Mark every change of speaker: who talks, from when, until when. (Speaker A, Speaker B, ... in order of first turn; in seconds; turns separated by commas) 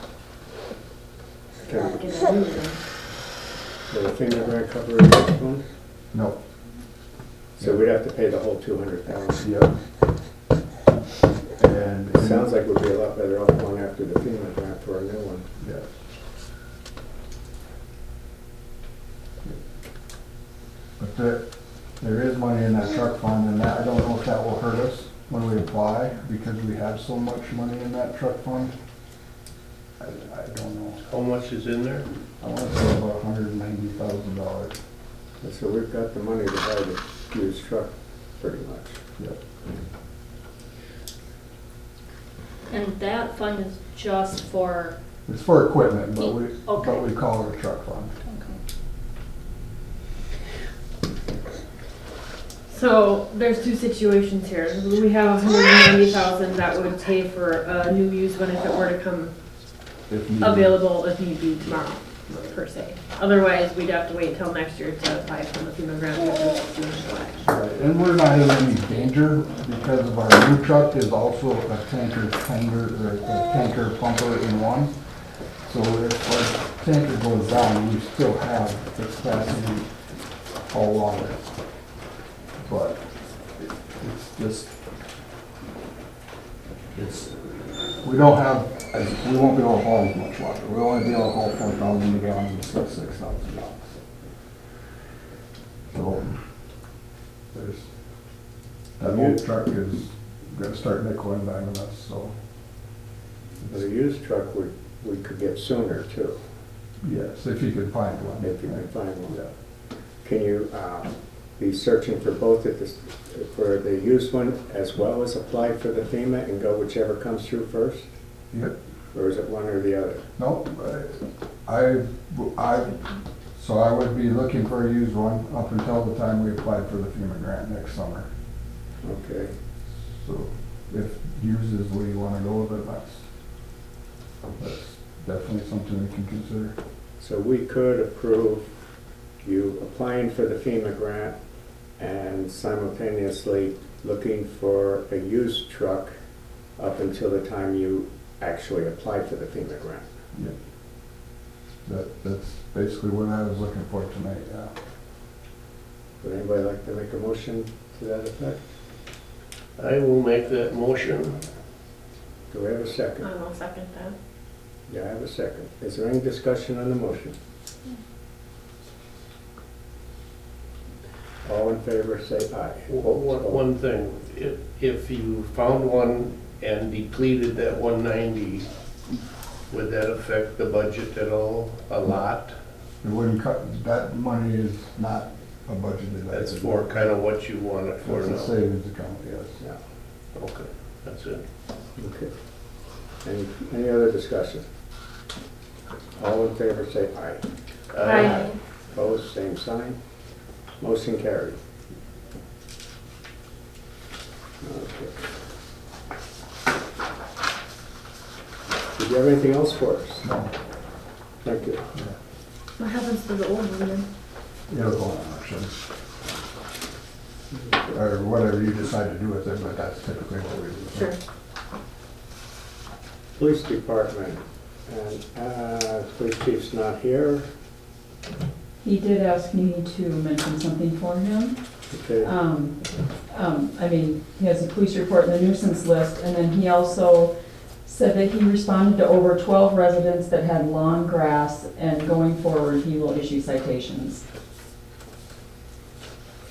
Speaker A: 1.6-2.0, Speaker B: 1.7-2.8, Speaker A: 3.9-5.6, Speaker C: 6.1-6.4, Speaker A: 7.6-9.5, Speaker C: 9.4-9.7, Speaker C: 11.6-12.5, Speaker A: 12.1-15.4, Speaker C: 15.6-15.9, Speaker C: 21.0-21.5, Speaker C: 22.0-28.7, Speaker C: 30.0-31.0, Speaker D: 31.0-32.0, Speaker C: 32.4-34.8, Speaker A: 35.4-39.0, Speaker E: 42.7-44.9, Speaker C: 45.3-48.1, Speaker E: 46.6-47.0, Speaker E: 48.3-48.6, Speaker B: 52.7-59.3, Speaker C: 60.1-60.8, Speaker B: 60.4-67.4, Speaker C: 67.4-74.9, Speaker C: 75.6-79.9, Speaker C: 80.7-81.5, Speaker C: 82.6-83.0, Speaker C: 83.6-84.7, Speaker C: 86.9-87.3, Speaker C: 88.0-94.0, Speaker C: 95.9-96.4, Speaker C: 97.5-97.9, Speaker C: 99.0-102.3, Speaker A: 99.0-99.4, Speaker A: 103.7-106.4, Speaker C: 107.0-109.5, Speaker A: 108.4-109.4, Speaker A: 110.2-118.1, Speaker A: 119.1-120.2, Speaker C: 120.4-123.0, Speaker C: 123.5-128.3, Speaker A: 129.0-129.5, Speaker C: 130.1-133.2, Speaker C: 134.6-136.7, Speaker A: 137.2-138.7, Speaker A: 139.4-141.3, Speaker A: 142.0-146.1, Speaker A: 146.8-150.0, Speaker C: 151.8-154.7, Speaker A: 156.2-158.6, Speaker D: 159.8-161.4, Speaker A: 162.5-163.3, Speaker B: 163.2-164.1, Speaker A: 164.9-167.3, Speaker A: 171.4-173.6, Speaker D: 172.9-178.7, Speaker D: 179.7-182.5, Speaker C: 183.0-186.9, Speaker D: 186.3-188.6, Speaker C: 188.0-189.6, Speaker D: 190.3-191.4, Speaker A: 191.9-192.3, Speaker A: 193.2-194.6, Speaker A: 196.2-197.4, Speaker D: 197.9-198.5, Speaker B: 198.0-198.5, Speaker A: 198.9-200.0, Speaker A: 200.8-201.6, Speaker A: 204.6-205.2, Speaker A: 208.9-210.3, Speaker C: 210.2-210.5, Speaker A: 211.4-211.9, Speaker B: 212.8-214.1, Speaker C: 214.7-215.8, Speaker A: 217.5-217.8, Speaker C: 217.9-221.1, Speaker A: 223.4-227.4, Speaker F: 228.8-231.6, Speaker A: 231.9-232.3, Speaker F: 232.2-244.2